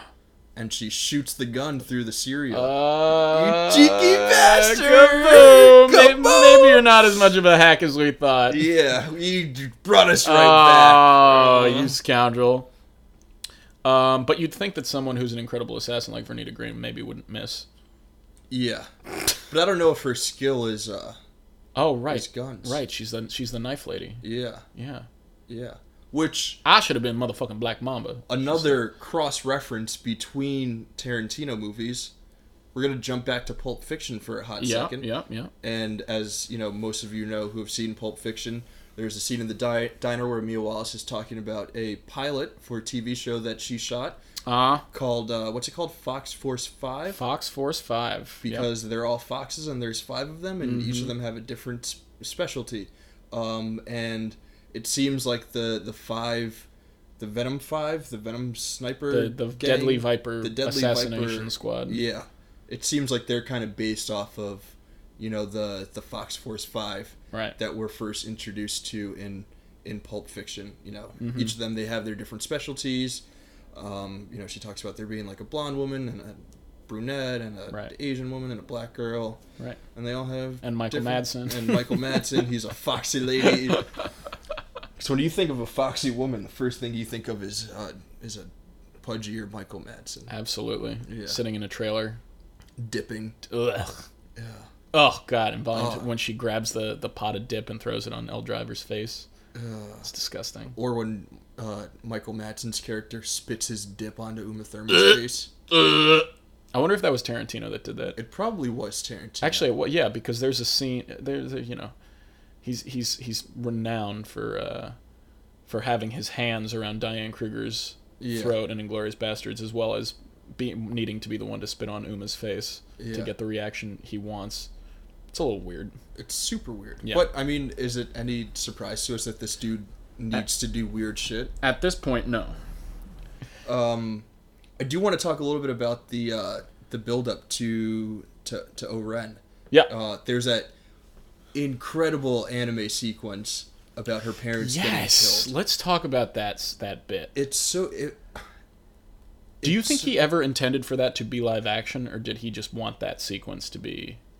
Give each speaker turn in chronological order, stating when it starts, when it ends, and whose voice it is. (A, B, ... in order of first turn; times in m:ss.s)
0:00.6-0:07.1 A
0:02.5-0:08.7 B
0:08.5-0:12.0 A
0:10.2-0:12.7 B
0:13.8-0:17.6 B
0:18.5-0:21.2 A
0:21.8-0:25.1 B
0:22.1-0:22.8 A
0:24.2-0:24.6 A
0:25.5-0:26.6 A
0:26.6-0:28.8 B
0:28.3-0:32.1 A
0:32.7-0:35.1 A
0:34.6-0:35.5 B
0:35.6-0:44.2 A
0:44.4-0:44.8 B
0:44.9-0:47.2 A
0:47.1-0:48.7 B
0:48.4-0:56.7 A
0:50.6-0:51.1 B
0:57.2-1:19.4 A
0:59.1-1:02.0 B
1:07.3-1:07.6 B
1:11.2-1:11.5 B
1:19.9-1:23.9 A
1:20.6-1:22.2 B
1:25.0-1:28.5 A
1:29.0-1:30.3 A
1:30.3-1:32.2 B
1:31.0-1:31.4 A
1:32.8-1:33.4 A
1:33.5-1:34.0 B
1:34.4-1:34.7 A
1:34.9-1:39.2 B
1:35.7-1:36.1 A
1:39.5-1:40.1 A
1:40.0-1:40.8 B
1:40.7-1:45.5 A
1:44.9-1:45.2 B
1:45.7-1:48.2 B
1:48.2-1:49.7 A
1:49.4-1:51.9 B
1:52.6-1:55.0 B
1:55.7-2:04.7 B
1:58.2-1:58.6 A
2:03.0-2:03.3 A
2:05.3-2:06.0 B
2:06.2-2:11.5 A
2:07.0-2:07.3 B
2:11.6-2:12.6 B
2:13.6-2:14.2 A
2:14.8-2:20.7 A
2:21.5-2:25.5 A
2:24.6-2:27.3 B
2:27.3-2:28.4 A
2:29.6-2:30.1 A
2:29.6-2:34.2 B